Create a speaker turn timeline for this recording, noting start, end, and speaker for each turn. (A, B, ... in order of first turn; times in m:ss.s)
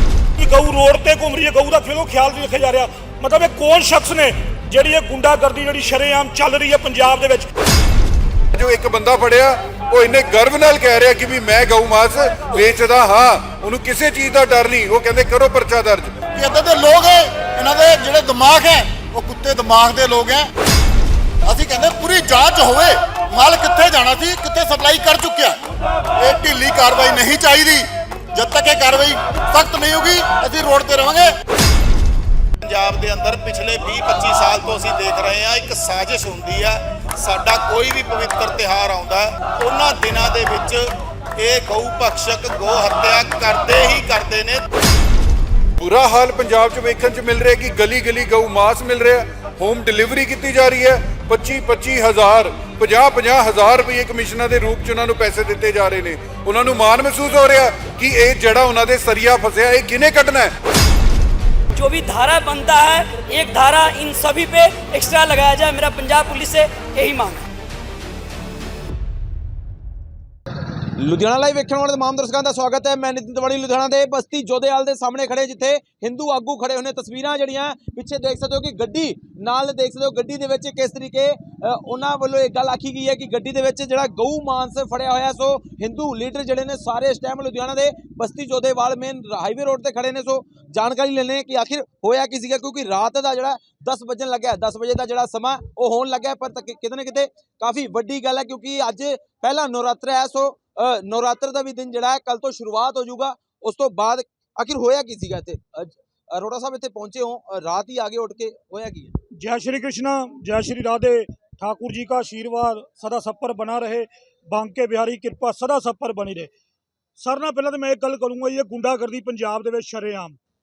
0:00.4-0:07.5 A
0:08.5-0:16.2 B
0:16.3-0:20.5 C
0:21.5-0:25.6 C
0:26.2-0:31.3 C
0:32.6-0:40.8 D
0:41.4-0:44.6 D
0:45.8-1:00.5 B
1:01.8-1:07.5 E
1:11.0-1:49.1 F
1:49.4-1:56.5 A
1:57.2-2:00.4 A